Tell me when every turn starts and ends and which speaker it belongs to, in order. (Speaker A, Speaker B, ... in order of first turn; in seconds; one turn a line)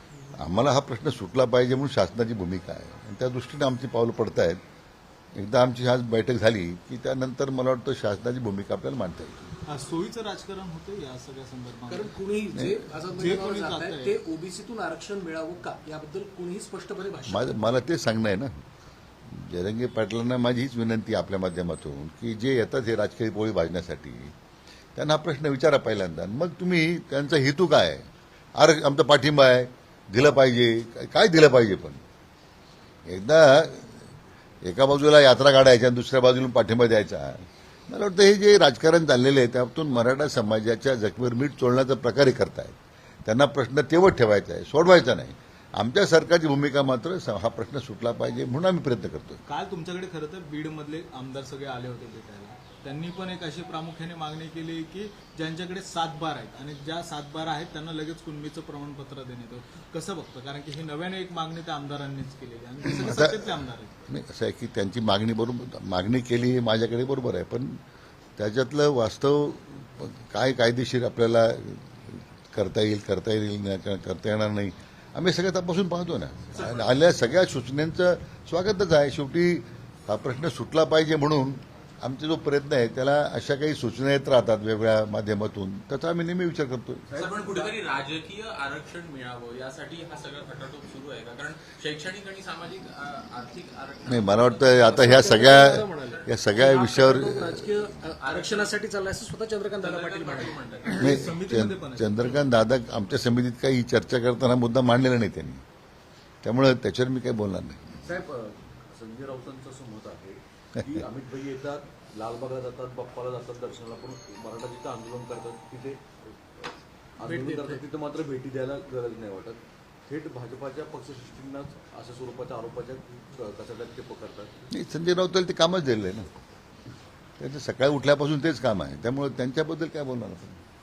Speaker A: 0.3-4.6
Speaker A: 5.3-9.5
Speaker B: 9.7-12.2
Speaker C: 11.9-17.8
Speaker B: 13.1-14.2
Speaker A: 17.3-18.6
Speaker A: 19.3-24.4
Speaker A: 24.9-32.0
Speaker A: 33.1-34.0
Speaker A: 34.6-49.4
Speaker B: 49.5-64.0
Speaker A: 62.9-67.8
Speaker A: 68.4-87.1
Speaker D: 76.6-76.9
Speaker E: 87.1-87.8
Speaker D: 87.2-96.5
Speaker A: 94.1-97.8
Speaker C: 94.8-100.6
Speaker D: 98.2-98.8
Speaker D: 99.8-101.2
Speaker B: 100.9-102.5
Speaker A: 100.9-105.6
Speaker A: 106.4-108.0
Speaker E: 108.0-124.5
Speaker C: 117.2-117.8
Speaker A: 124.7-126.3
Speaker A: 127.4-130.6